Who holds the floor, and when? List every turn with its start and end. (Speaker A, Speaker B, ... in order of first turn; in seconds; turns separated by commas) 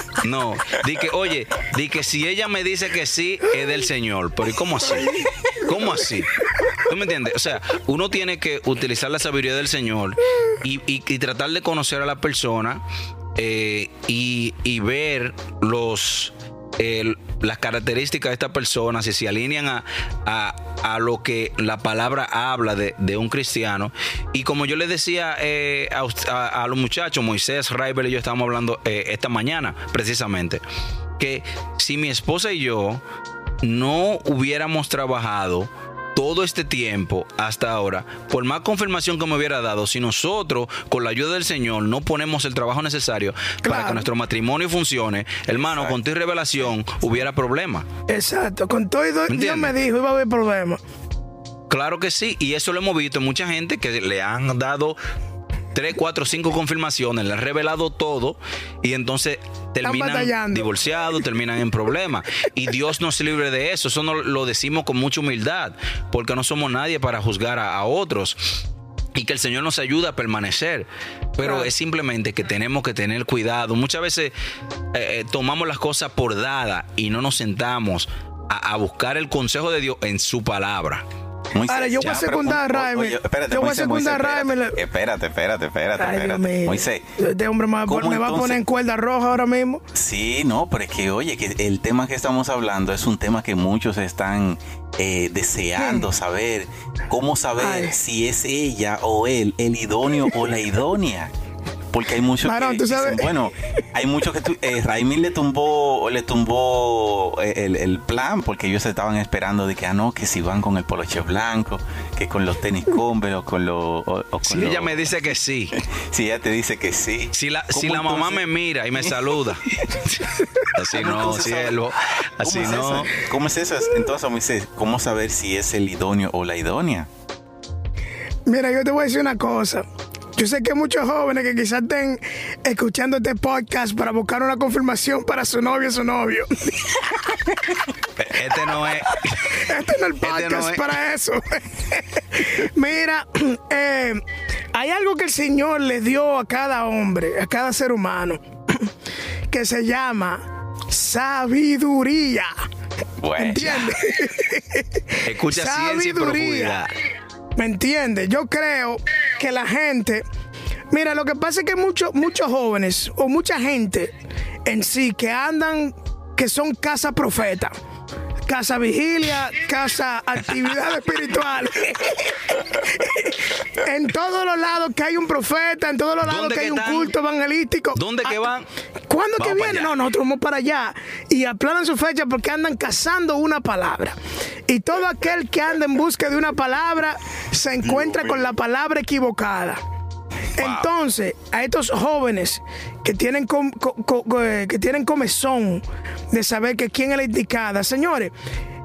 Speaker A: 0.2-12.8, Speaker B: 4.9-5.2, Speaker A: 13.4-30.6, Speaker A: 31.2-33.0, Speaker A: 33.6-47.9, Speaker B: 43.6-44.1, Speaker C: 45.6-46.0, Speaker C: 46.6-47.2, Speaker B: 48.1-50.8, Speaker A: 49.3-49.8, Speaker A: 51.7-55.0, Speaker A: 55.7-68.5, Speaker B: 59.8-60.7, Speaker A: 69.2-74.3, Speaker B: 71.4-71.7, Speaker A: 74.9-81.0, Speaker C: 81.5-87.0, Speaker B: 81.7-84.8, Speaker B: 86.0-89.8, Speaker C: 87.9-88.6, Speaker C: 89.9-101.3, Speaker B: 95.8-96.1, Speaker B: 97.6-98.0, Speaker C: 101.9-115.1, Speaker B: 102.4-103.3, Speaker A: 114.5-115.8, Speaker C: 115.8-121.9, Speaker A: 117.3-119.6, Speaker A: 120.7-123.1, Speaker C: 122.4-127.1, Speaker B: 128.4-137.5, Speaker A: 138.2-139.7, Speaker B: 139.5-148.9, Speaker A: 140.2-140.9, Speaker B: 149.5-152.6, Speaker C: 153.2-154.0, Speaker B: 153.4-156.8, Speaker A: 155.2-156.9, Speaker B: 157.6-160.2, Speaker B: 160.9-164.1, Speaker B: 164.7-167.7, Speaker B: 168.5-178.4, Speaker A: 176.2-177.1, Speaker A: 177.9-178.7, Speaker B: 179.1-184.2, Speaker A: 179.4-180.0, Speaker B: 184.7-189.8, Speaker B: 190.6-198.3, Speaker A: 190.6-190.9